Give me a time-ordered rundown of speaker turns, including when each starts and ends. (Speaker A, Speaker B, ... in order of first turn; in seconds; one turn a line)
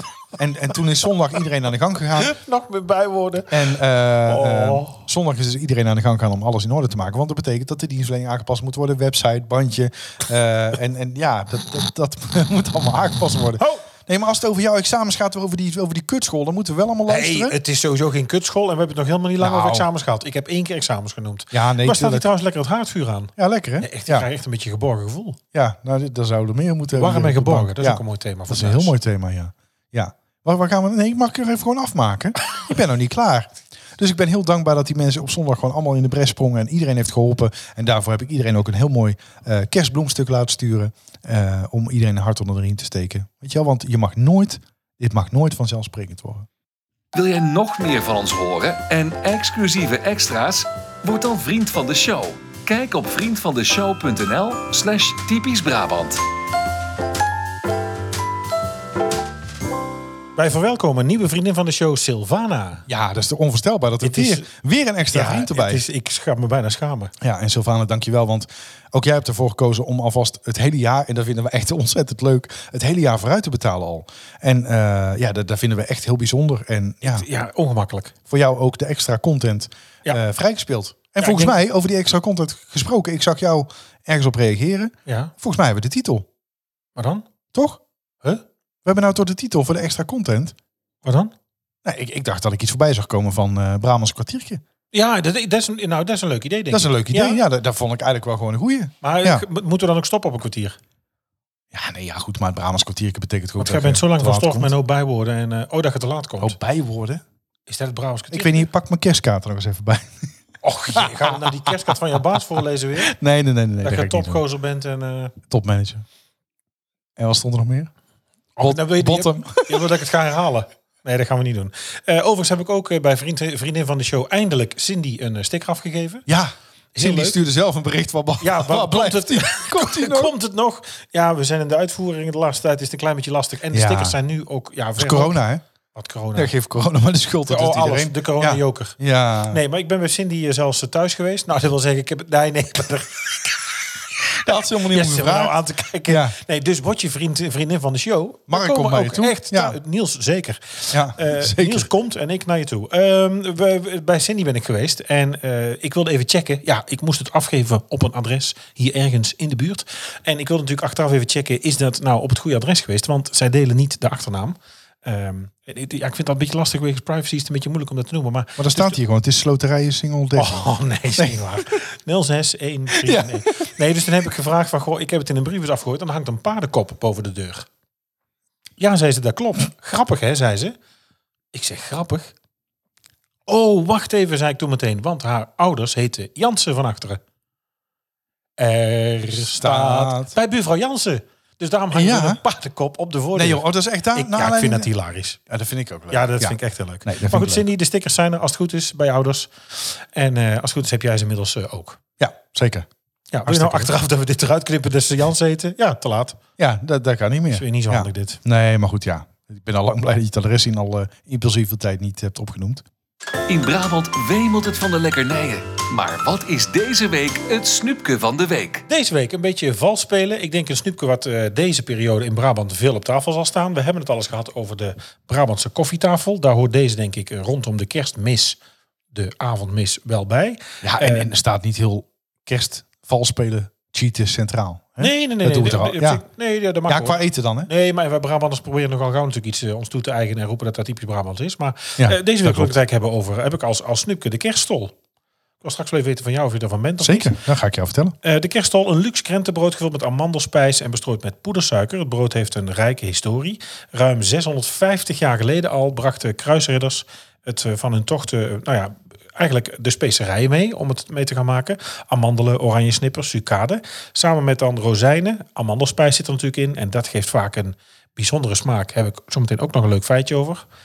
Speaker A: 0.3-2.3
Speaker B: 2.2-5.0
Speaker A: 3.5-17.6
Speaker B: 13.6-13.8
Speaker B: 17.1-25.4
Speaker A: 19.4-19.9
Speaker A: 21.5-22.3
Speaker A: 23.4-24.3
Speaker A: 25.5-46.5
Speaker B: 26.9-28.9
Speaker C: 47.1-56.2
Speaker B: 60.4-62.9
Speaker A: 62.9-65.8
Speaker B: 64.0-64.5
Speaker B: 65.1-67.1
Speaker A: 67.2-77.3
Speaker B: 77.0-78.1
Speaker A: 78.3-86.3
Speaker B: 81.2-81.6
Speaker B: 85.1-85.3
Speaker B: 87.0-87.2
Speaker A: 87.5-87.8
Speaker A: 88.8-90.5
Speaker B: 91.0-91.3
Speaker A: 91.8-94.6
Speaker B: 94.9-97.4
Speaker A: 96.7-99.5
Speaker B: 99.0-100.8
Speaker A: 101.7-104.7
Speaker B: 103.6-106.6
Speaker A: 106.4-107.2
Speaker B: 107.7-108.7
Speaker A: 108.3-110.3
Speaker B: 110.6-113.1
Speaker A: 110.9-111.9
Speaker A: 113.0-114.4
Speaker B: 113.8-115.3
Speaker A: 115.5-116.0
Speaker A: 117.2-117.9
Speaker B: 118.6-126.3
Speaker A: 118.6-120.0
Speaker A: 126.3-130.3
Speaker B: 127.0-127.4
Speaker B: 128.4-135.4
Speaker A: 133.7-134.2
Speaker A: 135.0-135.6
Speaker B: 135.9-136.5
Speaker A: 136.3-139.6
Speaker B: 137.5-139.0
Speaker B: 139.5-143.5
Speaker A: 144.4-146.3
Speaker B: 144.9-169.0
Speaker A: 148.5-149.8
Speaker A: 150.9-151.9
Speaker A: 168.6-171.4
Speaker B: 170.4-177.7
Speaker A: 172.9-173.7
Speaker B: 178.8-180.8
Speaker B: 181.5-182.3
Speaker B: 183.5-187.2
Speaker B: 188.6-195.4
Speaker A: 189.4-190.4
Speaker A: 191.9-192.4
Speaker A: 193.3-194.9
Speaker A: 195.5-197.7
Speaker B: 196.1-202.0
Speaker A: 202.2-202.9
Speaker B: 203.3-206.4
Speaker A: 203.5-203.9
Speaker A: 206.6-212.8
Speaker B: 207.5-208.4
Speaker C: 213.5-218.8
Speaker B: 218.9-228.6
Speaker B: 229.1-231.3
Speaker A: 230.8-236.3
Speaker B: 235.0-244.9
Speaker A: 236.9-237.7
Speaker A: 242.0-242.8
Speaker B: 245.6-247.4
Speaker A: 247.0-248.2
Speaker B: 248.2-270.6